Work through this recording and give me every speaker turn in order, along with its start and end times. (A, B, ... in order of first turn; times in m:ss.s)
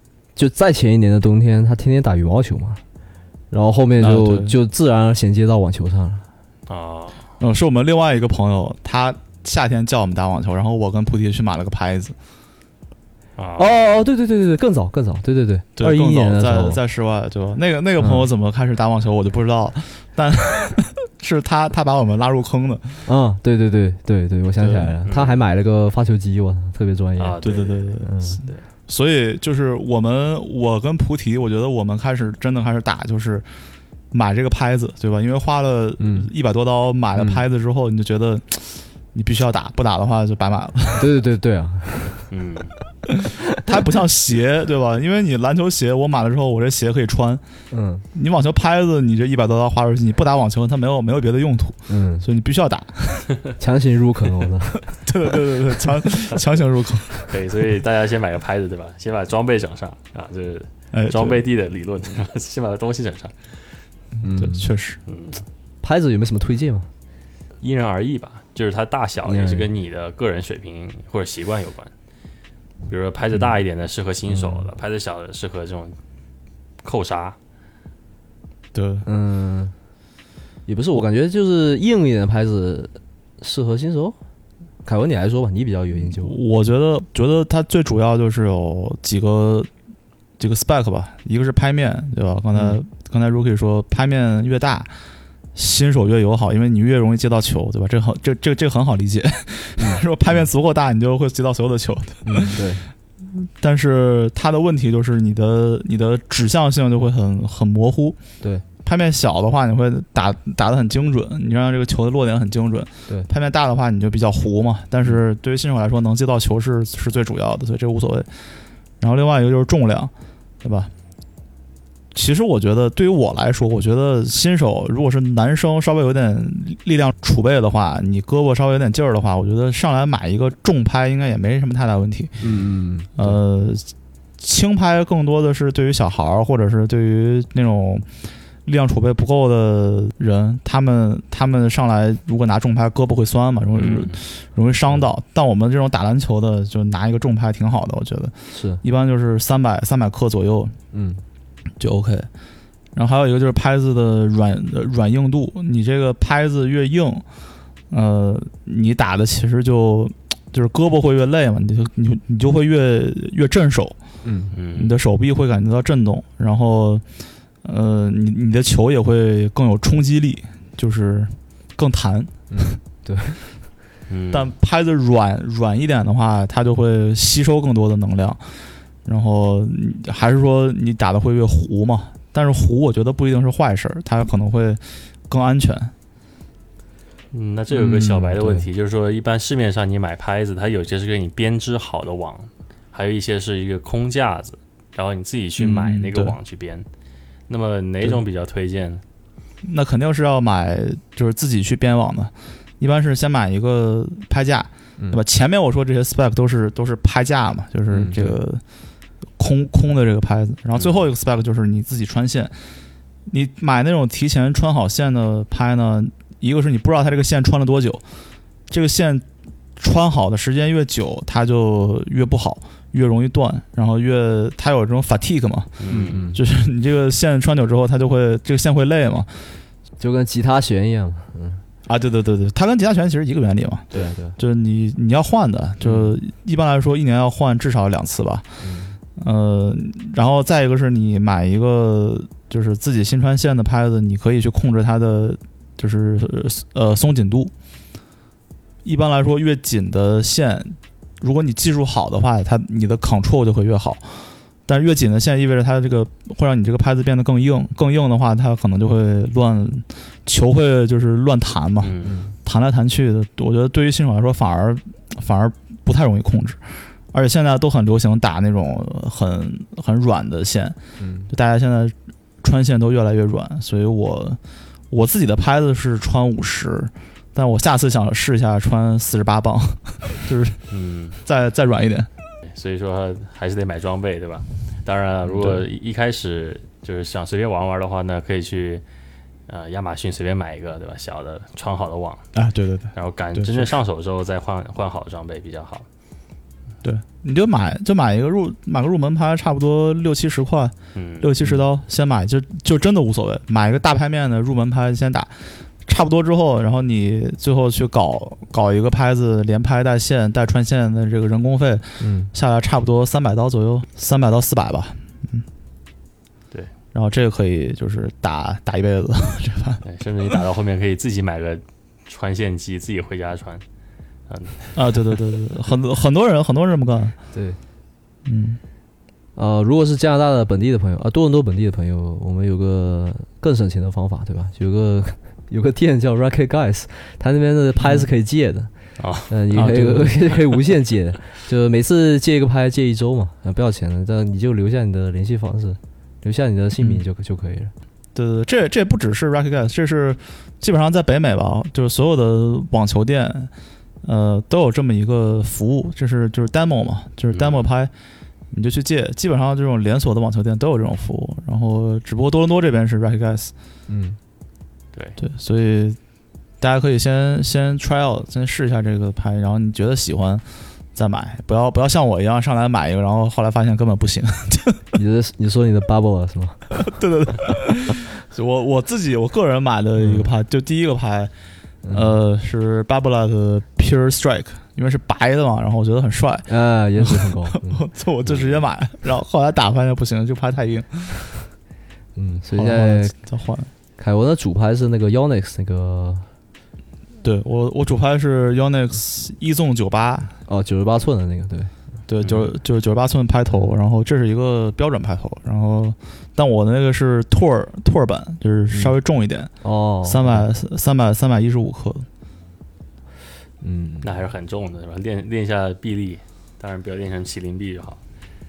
0:00.4-0:02.8 A
0:03.5-0:06.2 A
0:04.0-0:04.6 B
0:06.7-0:07.3 C
0:07.4-0:12.2 B
0:13.4-0:13.8 C
0:13.6-0:16.8 A
0:15.8-0:23.1 B
0:18.0-0:18.3 A
0:23.1-0:27.4 A
0:24.6-0:25.0 B
0:25.0-0:25.4 C
0:27.2-0:28.6 C
0:27.4-0:28.3 B
0:28.0-0:28.4 A
0:28.9-0:33.5 B
0:34.1-0:41.1 B
0:36.0-0:36.3 A
0:37.2-0:37.4 A
0:41.0-0:42.3 A
0:42.3-0:42.7 C
0:43.6-0:47.4 B
0:47.7-0:48.0 A
0:48.1-0:53.4 B
0:51.9-0:52.3 A
0:53.6-0:54.8 A
0:55.0-0:57.2 B
0:57.2-1:03.4 C
1:00.9-1:01.4 B
1:04.2-1:04.7 A
1:04.4-1:05.0 B
1:05.1-1:05.4 C
1:05.8-1:06.9 A
1:07.6-1:11.9 C
1:09.2-1:09.7 A
1:12.9-1:16.0 C
1:14.3-1:14.7 A
1:16.8-1:17.4 C
1:18.7-1:19.1 B
1:19.1-1:19.7 A
1:20.7-1:24.2 A
1:24.8-1:26.4 A
1:26.0-1:29.7 B
1:30.4-1:34.9 B
1:32.5-1:32.8 A
1:35.6-1:42.6 B
1:39.8-1:40.0 A
1:42.2-1:42.9 A
1:43.3-1:48.2 B
1:48.8-1:58.3 B
1:59.0-2:00.9 B
2:02.1-2:12.4 B
2:12.4-2:13.4 A
2:13.2-2:18.1 B
2:18.7-2:30.8 B
2:23.8-2:24.2 C
2:28.5-2:28.8 A
2:30.9-2:31.2 A
2:31.8-2:32.3 B
2:33.0-2:37.2 B
2:37.9-2:44.0 B
2:44.2-2:44.5 A
2:44.5-2:45.0 C
2:44.7-2:47.0 B
2:47.6-2:52.5 B
2:52.5-2:53.4 A
2:54.1-2:54.5 C
2:54.3-2:58.4 B
2:59.0-3:05.9 B
3:07.3-3:16.9 C
3:07.7-3:08.7 A
3:15.6-3:16.4 B
3:17.5-3:19.0 C
3:19.6-3:28.6 B
3:27.9-3:28.4 A
3:29.4-3:32.6 B
3:30.8-3:31.0 C
3:33.3-3:38.0 B
3:38.7-3:39.2 B
3:39.8-3:49.3 B
3:45.8-3:46.3 C
3:45.9-3:46.4 A
3:50.0-3:51.6 A
3:51.9-3:58.4 B
3:53.9-3:54.4 A
3:58.6-3:59.0 A
3:59.2-4:07.5 B
4:08.8-4:30.8 B
4:21.8-4:22.2 C
4:22.0-4:22.3 A
4:31.0-4:31.3 A
4:31.3-4:34.4 B
4:34.9-4:40.6 B
4:40.7-4:41.2 C
4:41.2-4:42.1 B
4:42.4-4:48.8 C
4:45.3-4:45.6 B
4:49.5-4:52.3 C
4:52.4-4:53.7 B
4:53.0-4:55.9 C
4:56.8-5:15.5 B
5:01.0-5:01.4 C
5:12.0-5:12.3 A
5:16.9-5:20.4 B
5:19.8-5:23.6 C
5:24.3-5:25.2 C
5:24.8-5:27.2 B
5:27.3-5:27.6 A
5:28.3-5:28.6 B
5:29.4-5:38.7 A
5:37.8-5:38.1 B
5:39.0-5:39.3 C
5:39.3-5:47.7 A
5:39.5-5:40.1 B
5:48.2-5:53.5 B
5:54.0-5:57.9 B
5:57.3-5:57.7 C
5:58.5-6:03.5 B
6:03.9-6:04.2 A
6:05.2-6:06.0 B
6:06.6-6:10.4 B
6:11.0-6:14.8 B
6:15.0-6:16.6 A
6:16.7-6:21.3 B
6:20.0-6:20.3 A
6:21.8-6:22.2 A
6:21.9-6:31.4 B
6:26.5-6:27.8 A
6:32.2-6:33.2 A
6:32.6-6:33.7 B
6:34.0-6:36.3 A
6:37.2-6:40.3 B
6:40.5-6:41.7 A
6:42.1-6:49.5 B
6:42.2-6:42.5 C
6:49.6-6:50.5 A
6:50.0-6:52.1 B
6:53.6-6:54.2 A
6:54.0-6:58.0 C